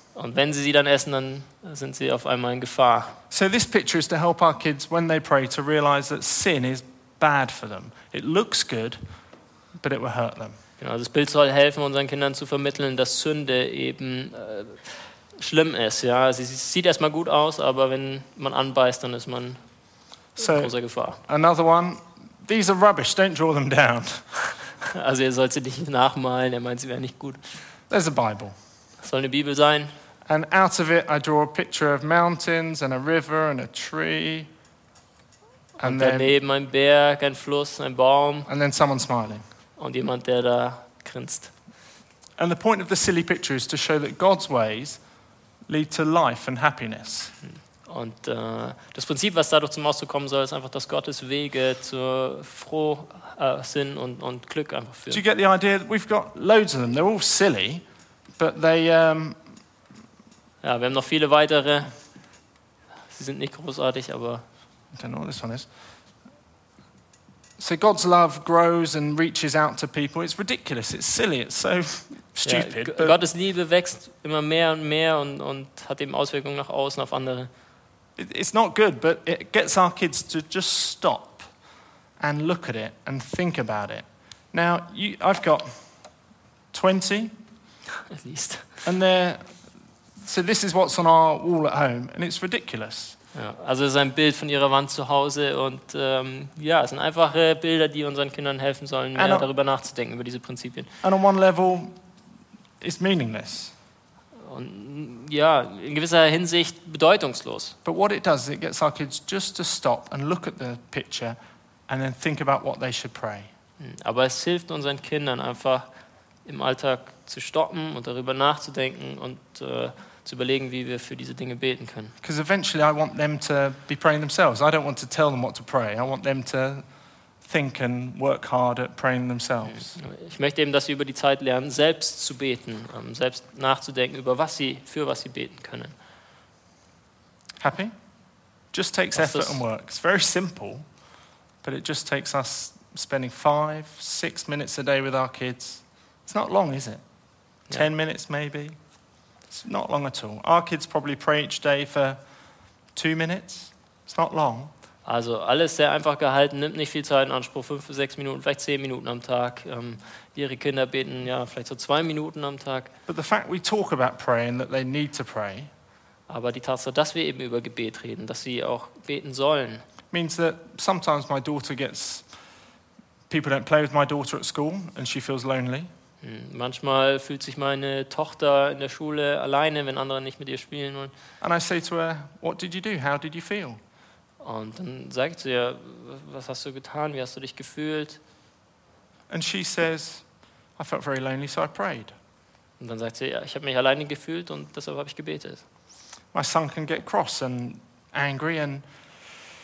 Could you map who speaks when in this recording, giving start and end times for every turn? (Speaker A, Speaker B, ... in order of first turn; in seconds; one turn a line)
Speaker A: 0.1-3.2
Speaker B: 3.3-9.0
Speaker B: 9.8-10.6
Speaker A: 10.8-19.6
Speaker A: 20.4-21.2
Speaker B: 20.4-24.3
Speaker A: 24.9-27.6
Speaker B: 27.9-28.6
Speaker A: 29.0-29.9
Speaker B: 30.3-34.5
Speaker A: 35.8-38.5
Speaker B: 35.8-36.3
Speaker B: 38.5-39.5
Speaker A: 39.8-41.5
Speaker B: 42.4-45.0
Speaker B: 45.7-47.4
Speaker A: 47.4-55.2
Speaker B: 55.1-57.9
Speaker B: 58.4-59.4
Speaker A: 60.6-62.0
Speaker A: 63.1-64.4
Speaker B: 64.9-65.7
Speaker B: 67.6-73.2
Speaker A: 72.4-77.5
Speaker B: 78.2-81.5
Speaker B: 82.2-85.9
Speaker B: 86.7-87.3
Speaker A: 88.1-88.7
Speaker B: 88.8-89.6
Speaker B: 90.2-93.2
Speaker A: 93.3-100.9
Speaker B: 99.2-99.5
Speaker B: 101.0-102.0
Speaker B: 102.8-103.8
Speaker A: 104.4-107.8
Speaker B: 107.8-113.5
Speaker A: 113.8-115.9
Speaker A: 116.5-122.2
Speaker B: 122.2-126.9
Speaker B: 127.4-129.9
Speaker A: 129.7-135.9
Speaker B: 137.6-137.9
Speaker B: 138.7-140.9
Speaker A: 139.2-139.6
Speaker B: 141.6-147.0
Speaker B: 147.7-148.8
Speaker B: 149.5-152.2
Speaker B: 152.9-154.7
Speaker A: 155.1-162.9
Speaker B: 163.1-165.7
Speaker A: 166.3-169.8
Speaker B: 170.1-172.3
Speaker B: 173.3-175.9
Speaker A: 176.2-181.1
Speaker B: 181.4-183.8
Speaker A: 184.4-188.2
Speaker B: 189.3-190.3
Speaker B: 190.8-192.1
Speaker A: 192.8-195.6
Speaker B: 196.3-198.9